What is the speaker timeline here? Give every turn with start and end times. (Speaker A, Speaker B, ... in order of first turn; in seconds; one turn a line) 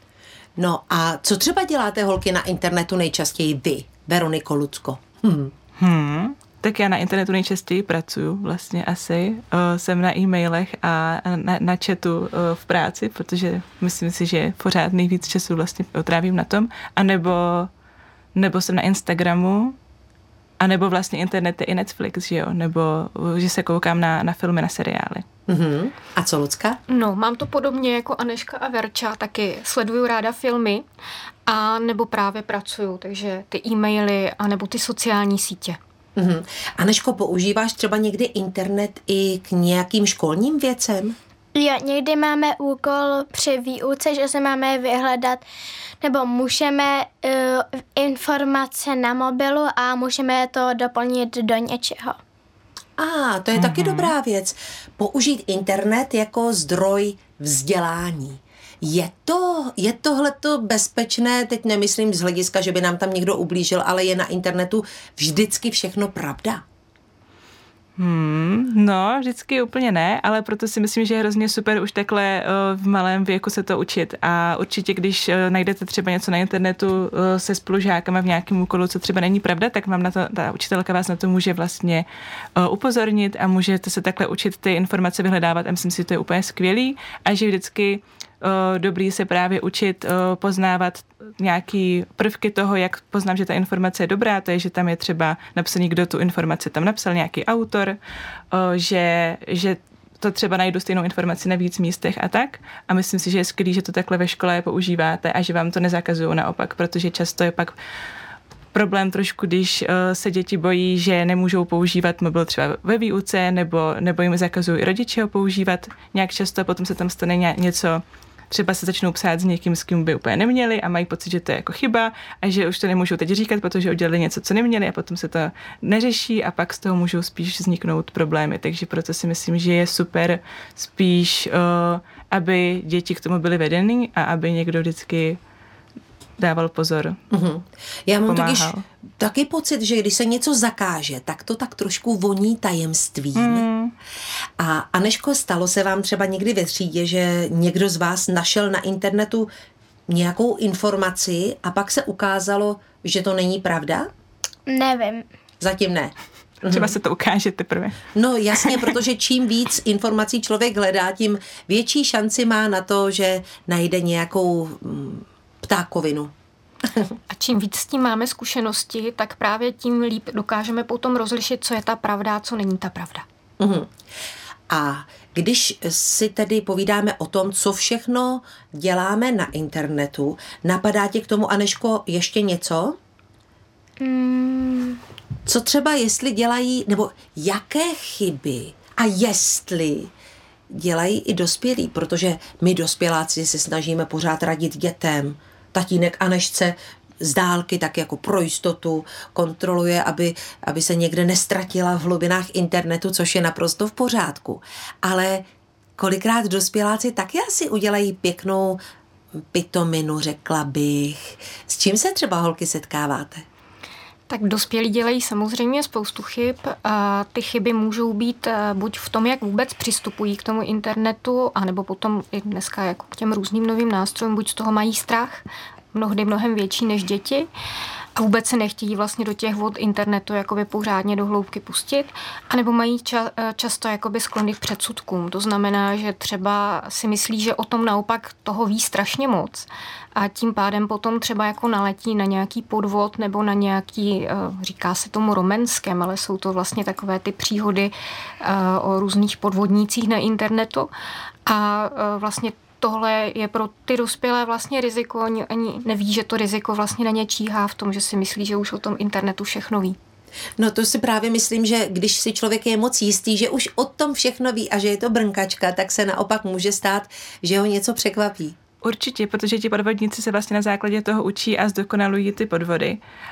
Speaker A: 0.6-5.5
Speaker B: 5.8-17.7
Speaker B: 18.3-19.7
Speaker B: 20.6-25.2
Speaker A: 25.5-26.8
Speaker C: 26.9-30.8
Speaker C: 31.5-35.8
Speaker A: 36.1-41.1
Speaker D: 41.5-45.4
Speaker D: 46.0-52.2
Speaker A: 53.0-66.6
Speaker B: 53.5-54.1
Speaker B: 68.0-82.0
Speaker B: 82.6-98.0
Speaker B: 98.5-107.7
Speaker B: 108.7-135.4
Speaker B: 136.4-137.2
Speaker A: 137.3-143.7
Speaker B: 138.3-138.8
Speaker B: 143.3-143.9
Speaker A: 144.6-149.5
Speaker A: 150.1-154.1
Speaker D: 154.7-155.3
Speaker A: 155.6-156.9
Speaker B: 156.7-158.0
Speaker A: 158.1-166.3
Speaker B: 158.6-158.9
Speaker A: 166.8-167.1
Speaker C: 167.3-173.2
Speaker A: 173.6-173.9
Speaker A: 174.7-183.0
Speaker D: 184.0-185.0
Speaker A: 185.4-190.1
Speaker A: 190.7-208.8
Speaker A: 209.5-213.4
Speaker C: 214.3-225.4
Speaker C: 225.9-227.5
Speaker C: 228.2-250.9
Speaker C: 251.4-260.0
Speaker A: 260.6-268.6
Speaker B: 268.8-273.0